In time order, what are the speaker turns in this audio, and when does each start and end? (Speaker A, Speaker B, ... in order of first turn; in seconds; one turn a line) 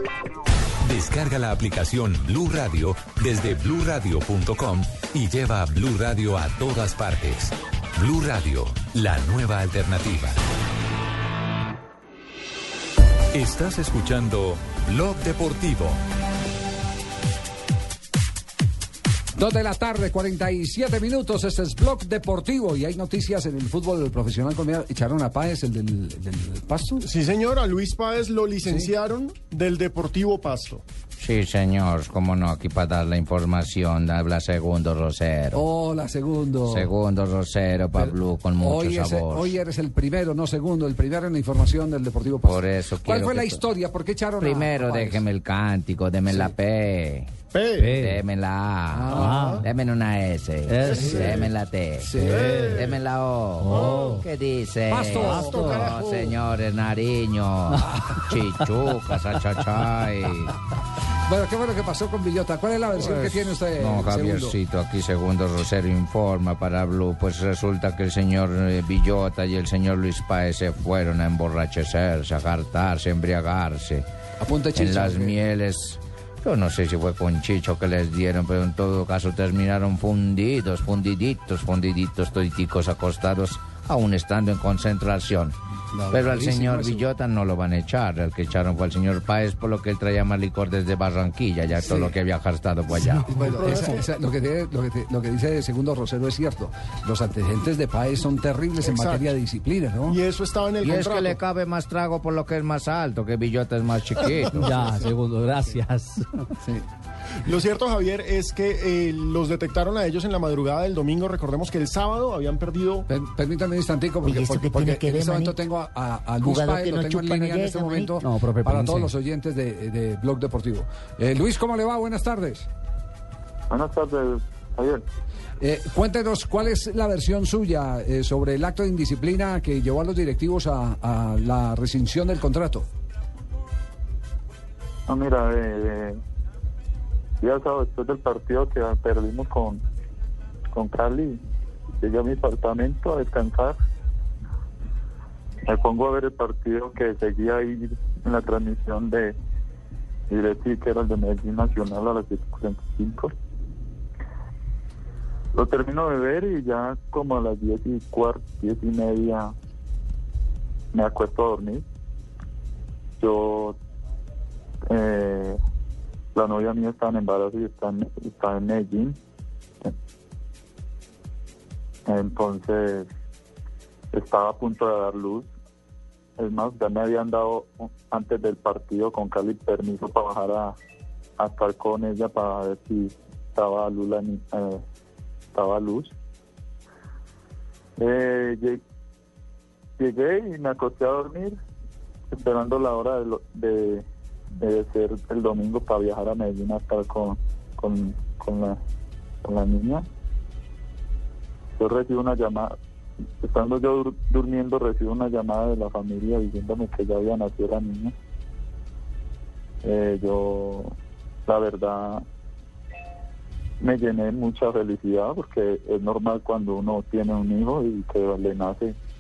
Speaker A: 0.8-10.4
Speaker A: 13.3-16.0
Speaker B: 19.4-27.1
Speaker C: 27.0-30.8
Speaker B: 28.6-28.9
Speaker D: 31.2-35.6
Speaker B: 35.5-36.9
Speaker D: 36.7-39.6
Speaker B: 38.0-45.2
Speaker D: 42.4-43.6
Speaker D: 44.4-47.3
Speaker C: 47.5-48.0
Speaker E: 47.8-48.2
Speaker D: 47.9-60.5
Speaker B: 48.9-49.6
Speaker E: 49.1-49.6
Speaker C: 49.2-49.6
Speaker E: 50.7-51.5
Speaker C: 50.8-51.5
Speaker B: 52.0-52.6
Speaker E: 52.2-52.8
Speaker C: 52.2-53.0
Speaker E: 53.6-54.2
Speaker C: 53.7-54.1
Speaker B: 54.9-55.9
Speaker C: 55.1-56.4
Speaker E: 55.2-55.9
Speaker B: 57.9-58.2
Speaker B: 61.3-64.5
Speaker D: 63.1-74.0
Speaker B: 74.4-75.4
Speaker D: 74.8-85.6
Speaker B: 85.9-87.0
Speaker D: 86.1-93.3
Speaker B: 91.8-92.1
Speaker B: 93.0-100.2
Speaker C: 93.6-93.9
Speaker C: 98.8-99.2
Speaker C: 100.1-101.4
Speaker D: 100.8-104.8
Speaker E: 104.6-106.5
Speaker C: 107.5-113.1
Speaker B: 113.1-122.7
Speaker C: 114.6-115.1
Speaker E: 118.2-119.1
Speaker F: 123.7-125.0
Speaker B: 125.6-132.9
Speaker F: 135.1-136.2
Speaker F: 137.4-139.8
Speaker F: 140.7-141.4
Speaker F: 142.0-143.8
Speaker F: 145.7-149.4
Speaker F: 150.3-153.3
Speaker F: 155.6-159.5
Speaker F: 160.9-161.8
Speaker F: 163.2-163.8
Speaker F: 164.9-165.6
Speaker F: 166.3-169.2
Speaker F: 172.1-173.1
Speaker F: 174.1-175.5
Speaker F: 176.4-180.8
Speaker F: 181.4-184.8
Speaker F: 185.5-186.1
Speaker F: 188.0-188.8
Speaker F: 190.0-191.6
Speaker F: 192.3-194.1
Speaker F: 194.6-198.8
Speaker F: 199.4-200.1
Speaker F: 201.8-202.8
Speaker F: 203.4-208.1
Speaker F: 209.8-210.9
Speaker F: 211.5-212.2
Speaker F: 213.8-218.9